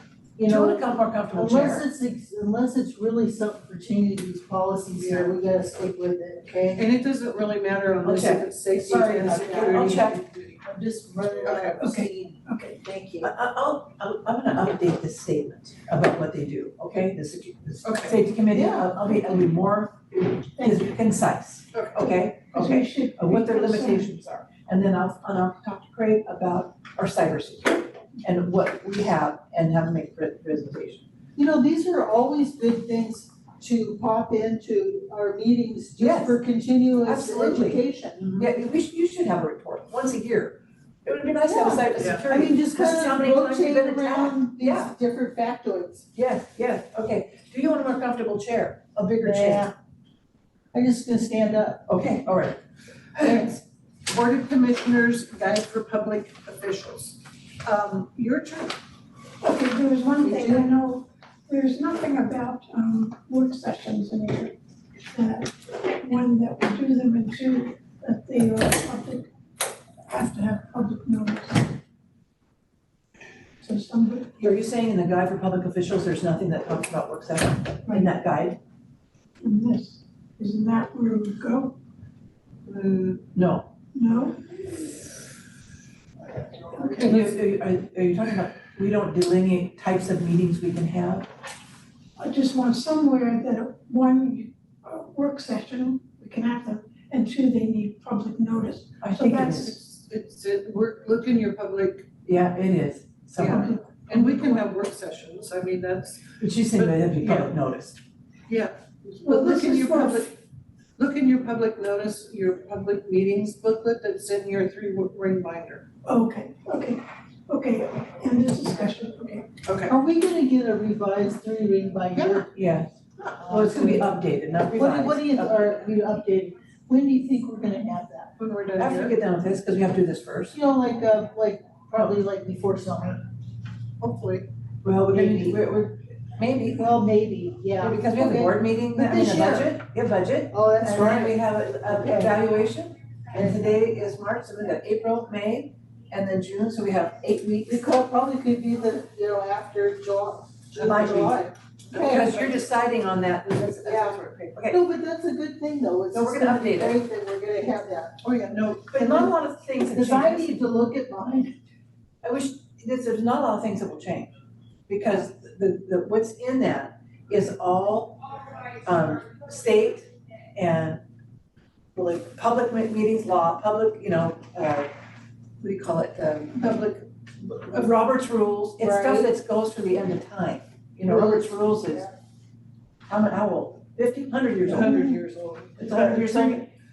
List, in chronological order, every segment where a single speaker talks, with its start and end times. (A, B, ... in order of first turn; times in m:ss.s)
0:00.4-0:06.9 A
0:00.4-0:01.9 B
0:05.0-0:05.4 C
0:06.7-0:10.6 C
0:08.0-0:10.2 B
0:08.9-0:10.0 A
0:10.6-0:13.3 A
0:11.4-0:11.8 C
0:11.8-0:12.8 D
0:13.2-0:31.1 B
0:17.8-0:18.2 C
0:18.5-0:18.9 A
0:21.7-0:22.1 C
0:22.5-0:24.1 D
0:31.4-0:38.5 A
0:36.0-0:36.4 B
0:37.0-0:37.8 B
0:38.4-0:45.0 B
0:41.5-0:46.1 A
0:46.1-0:49.7 B
0:49.2-0:49.7 A
0:50.7-0:51.8 A
0:51.9-0:52.6 B
0:53.2-0:53.6 B
0:53.2-0:58.8 C
0:59.4-1:04.5 D
1:00.2-1:00.7 C
1:05.1-1:09.3 D
1:10.1-1:11.7 D
1:13.6-1:14.4 D
1:14.4-1:18.6 B
1:17.9-1:18.1 D
1:19.4-1:21.8 D
1:22.7-1:23.2 C
1:23.3-1:23.7 B
1:23.9-1:24.4 D
1:26.7-1:27.4 D
1:27.0-1:31.3 B
1:32.2-1:39.8 D
1:39.0-1:39.8 B
1:39.6-1:42.1 C
1:42.3-1:43.7 B
1:43.4-1:44.6 D
1:43.4-1:47.5 C
1:46.4-1:48.0 B
1:48.5-1:50.4 C
1:49.2-1:50.3 D
1:51.0-1:55.9 C
1:56.0-1:59.5 D
1:59.6-1:59.9 C
1:59.9-2:02.5 A
2:02.1-2:02.4 C
2:02.5-2:02.9 B
2:03.3-2:04.2 A
2:03.5-2:05.8 B
2:04.7-2:08.3 A
2:08.4-2:09.2 C
2:08.8-2:10.6 B
2:10.5-2:13.2 A
2:14.0-2:14.5 C
2:14.8-2:16.9 B
2:15.1-2:15.6 A
2:16.8-2:19.8 A
2:17.8-2:27.9 B
2:20.5-2:22.4 A
2:27.7-2:32.4 A
2:30.7-2:31.4 B
2:31.9-2:32.6 C
2:31.9-2:34.8 B
2:33.8-2:38.2 A
2:36.1-2:37.0 B
2:38.2-2:38.9 C
2:38.9-2:40.6 B
2:38.9-2:39.3 A
2:39.9-2:41.5 A
2:42.2-2:44.3 B
2:44.9-2:51.0 B
2:52.0-2:54.9 B
2:55.6-2:56.8 B
2:56.6-2:57.1 C
2:57.7-3:02.1 B
2:58.8-2:59.3 A
3:01.1-3:02.1 A
3:03.1-3:05.1 B
3:04.6-3:06.6 C
3:05.8-3:06.7 B